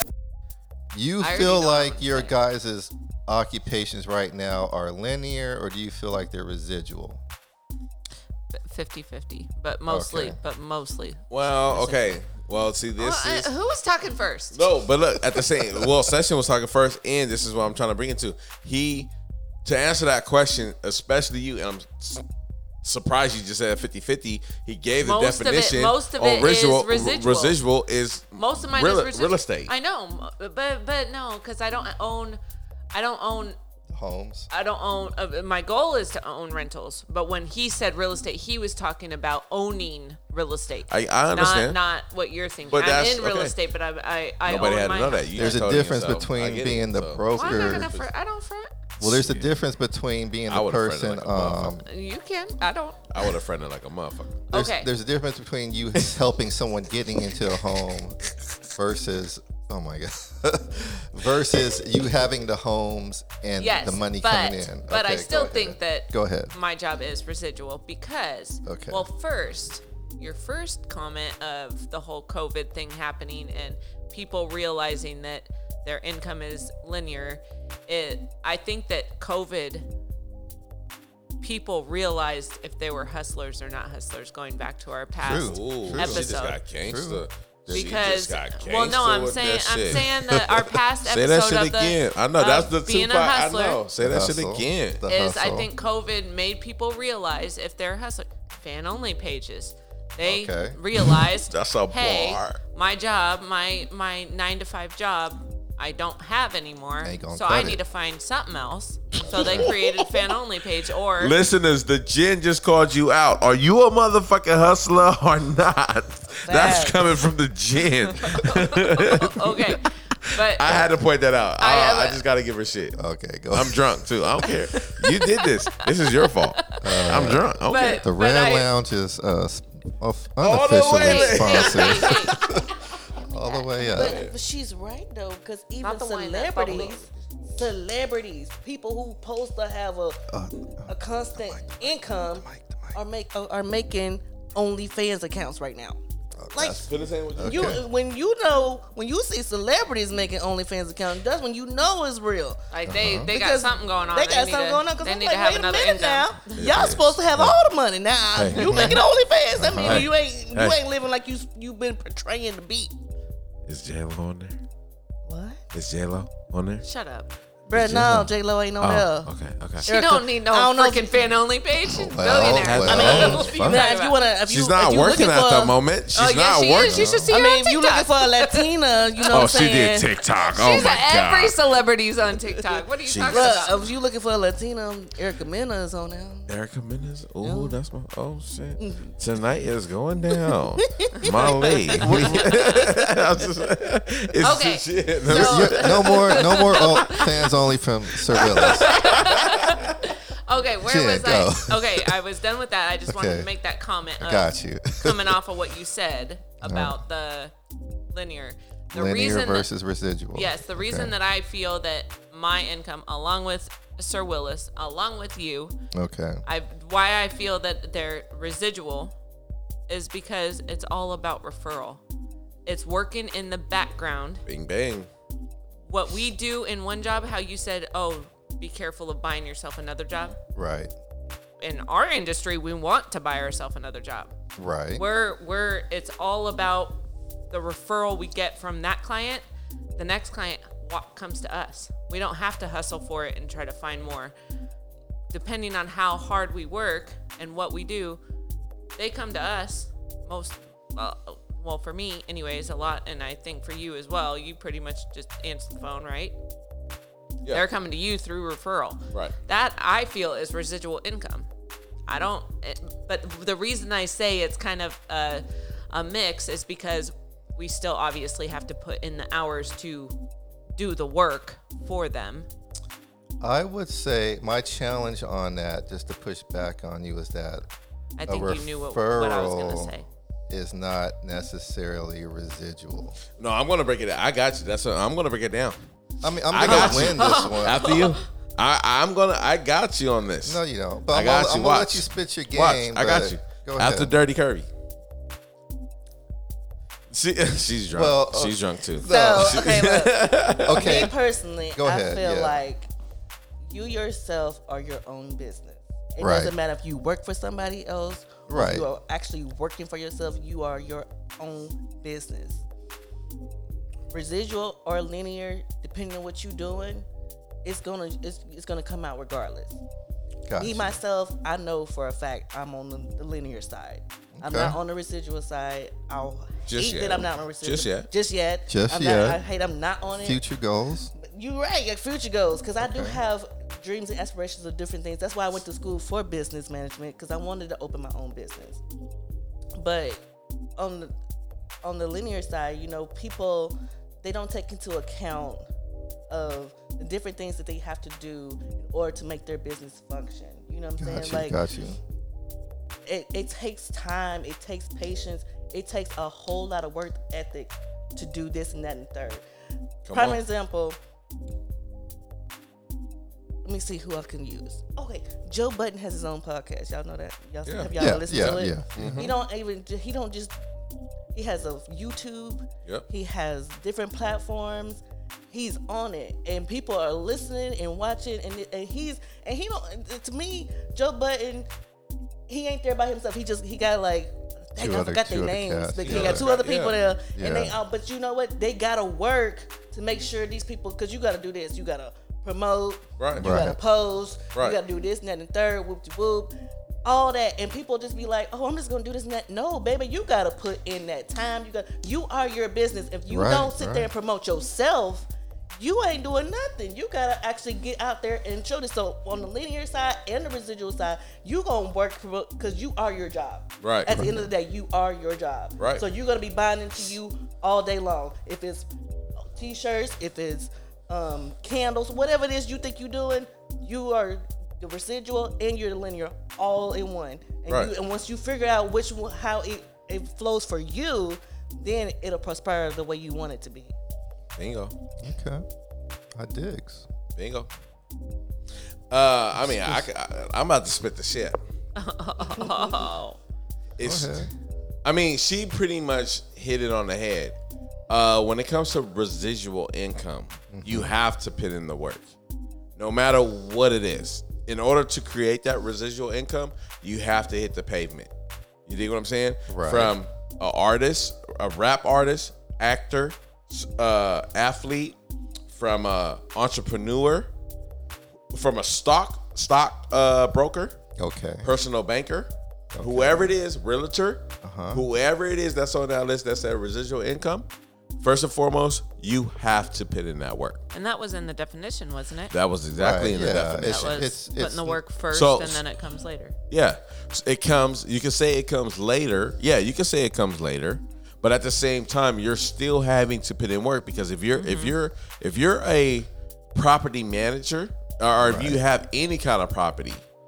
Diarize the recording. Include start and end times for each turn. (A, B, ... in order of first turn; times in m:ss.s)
0:00.9-0:07.2 A
0:01.2-0:02.4 B
0:08.5-0:12.2 B
0:09.9-0:10.4 A
0:11.3-0:13.5 C
0:13.0-0:14.7 B
0:14.5-0:19.1 C
0:19.6-0:22.2 C
0:22.8-0:29.7 C
0:25.0-0:27.6 B
0:28.4-0:32.4 B
0:32.9-0:33.6 B
0:33.9-0:34.5 A
0:34.5-0:45.6 B
0:40.9-0:41.8 C
0:42.7-0:43.6 C
0:44.4-0:48.0 C
0:45.4-0:47.9 A
0:47.3-0:48.8 B
0:49.0-0:49.5 C
0:49.0-0:51.9 A
0:50.5-0:51.8 C
0:51.8-0:53.2 B
0:53.1-0:54.5 C
0:54.5-0:54.9 B
0:54.5-1:06.6 A
1:03.6-1:19.9 B
1:08.6-1:09.1 A
1:21.4-1:26.6 B
1:25.2-1:27.2 A
1:25.4-1:30.1 C
1:27.7-1:33.8 B
1:31.0-1:35.0 C
1:34.0-1:35.7 A
1:35.1-1:51.4 B
1:40.2-1:40.8 A
1:41.2-1:42.6 C
1:47.0-1:47.8 A
1:49.2-1:50.4 C
1:49.3-1:49.7 A
1:51.2-2:03.0 C
1:56.4-1:57.1 D
1:58.1-2:00.8 B
2:01.6-2:02.2 B
2:03.0-2:04.5 A
2:03.5-2:08.0 C
2:05.7-2:08.7 B
2:06.8-2:14.2 A
2:10.4-2:12.6 C
2:11.0-2:13.9 B
2:13.8-2:20.3 D
2:13.9-2:14.3 C
2:15.8-2:17.0 B
2:20.3-2:23.0 A
2:20.9-2:26.0 D
2:26.4-2:27.8 A
2:26.5-2:26.8 D
2:26.8-2:27.8 C
2:27.4-2:32.6 D
2:32.7-2:36.6 B
2:32.9-2:33.3 A
2:33.2-2:42.9 D
2:36.6-2:37.5 C
2:38.4-2:39.0 C
2:38.5-2:39.0 A
2:39.6-2:40.1 A
2:39.8-2:40.8 C
2:43.7-2:44.6 C
2:45.3-2:45.6 D
2:45.7-2:46.8 C
2:46.8-2:47.3 B
2:47.7-2:49.3 D
2:47.8-2:48.1 C
2:47.8-2:48.3 A
2:48.8-2:49.9 C
2:49.8-2:54.2 B
2:49.9-2:51.4 D
2:51.9-2:53.9 A
2:52.3-2:53.5 C
2:52.9-2:55.8 D
2:54.5-2:57.2 C
2:56.2-3:03.8 B
2:56.8-2:57.4 A
2:57.3-3:00.1 D
2:59.3-3:01.6 C
3:02.7-3:06.5 D
3:03.1-3:03.7 C
3:06.5-3:17.3 C
3:07.4-3:07.8 D
3:08.8-3:09.1 D
3:10.5-3:13.2 D
3:12.0-3:12.9 B
3:14.4-3:17.3 B
3:15.3-3:19.2 A
3:18.3-3:20.0 C
3:18.3-3:24.5 B
3:20.8-3:22.2 A
3:23.1-3:23.5 A
3:24.2-3:25.4 A
3:25.0-3:27.5 B
3:26.6-3:27.0 A
3:28.1-3:29.7 B
3:28.9-3:31.1 A
3:30.3-3:35.7 B
3:35.9-3:36.4 A
3:36.5-3:39.2 B
3:39.9-3:42.0 B
3:42.7-3:44.4 B
3:44.5-3:45.1 C
3:45.9-3:50.4 B
3:50.6-3:50.9 A
3:51.6-3:54.3 B
3:54.6-3:55.0 A
3:55.0-3:59.4 B
4:00.0-4:04.3 B
4:05.3-4:08.2 B
4:09.0-4:16.4 B
4:17.5-4:21.5 B
4:22.1-4:30.1 B
4:30.8-4:32.5 B
4:33.4-4:37.7 A
4:38.2-4:40.1 B
4:38.3-4:40.0 A
4:40.5-4:43.2 A
4:43.4-4:45.8 C
4:46.2-4:48.1 A
4:46.5-4:54.7 C
4:46.6-4:48.2 B
4:50.4-4:54.1 A
4:57.1-5:01.1 C
4:57.9-4:59.7 A
4:59.1-5:00.2 D
5:00.6-5:01.1 A
5:00.7-5:02.9 D
5:01.7-5:02.6 A
5:03.6-5:12.6 D
5:06.2-5:06.5 A
5:08.5-5:08.9 A
5:14.1-5:17.1 D
5:17.6-5:19.8 D
5:20.5-5:21.0 A
5:20.6-5:30.4 D
5:24.4-5:24.8 A
5:26.7-5:28.1 C
5:28.7-5:29.4 A
5:30.2-5:31.1 A
5:31.2-5:38.8 D
5:32.8-5:33.2 A
5:39.8-5:40.2 D
5:40.8-5:41.1 D
5:41.8-5:45.6 D
5:46.3-5:51.6 D
5:51.0-5:52.0 A
5:53.1-5:59.4 D
6:00.1-6:00.4 C
6:00.1-6:01.0 D
6:03.6-6:10.6 D
6:07.6-6:09.4 C
6:08.0-6:09.3 A
6:11.3-6:21.7 D
6:22.5-6:36.5 D
6:24.8-6:26.7 A
6:26.0-6:27.0 C
6:27.3-6:27.8 A
6:33.2-6:33.7 C
6:33.4-6:33.8 A
6:37.0-6:58.9 D
6:43.3-6:44.1 A
6:53.8-6:54.2 C
6:54.1-6:54.5 A
6:55.8-6:56.0 C
6:59.4-7:13.9 D
7:07.7-7:07.9 C
7:14.6-7:15.0 C
7:15.2-7:15.6 A
7:16.4-7:17.1 A
7:17.4-7:17.7 C
7:19.1-7:21.6 C
7:19.7-7:20.0 A
7:22.0-7:23.4 B
7:22.5-7:23.0 D
7:24.0-7:24.4 C
7:24.0-7:24.5 A
7:25.0-7:27.6 C
7:28.1-7:32.3 C
7:30.7-7:31.1 A
7:33.0-7:38.3 C
7:38.9-7:45.2 C
7:39.7-7:40.2 A
7:45.7-7:47.5 C
7:48.5-7:51.0 C
7:51.2-7:51.7 A
7:51.6-7:57.7 C
7:52.9-7:53.5 A
7:54.6-7:55.0 A
7:58.2-8:00.8 C
8:00.9-8:02.5 B
8:02.5-8:04.2 C
8:03.0-8:05.0 A
8:03.9-8:06.6 B
8:05.3-8:05.8 C
8:06.7-8:20.2 C
8:14.6-8:15.0 B
8:18.4-8:18.8 A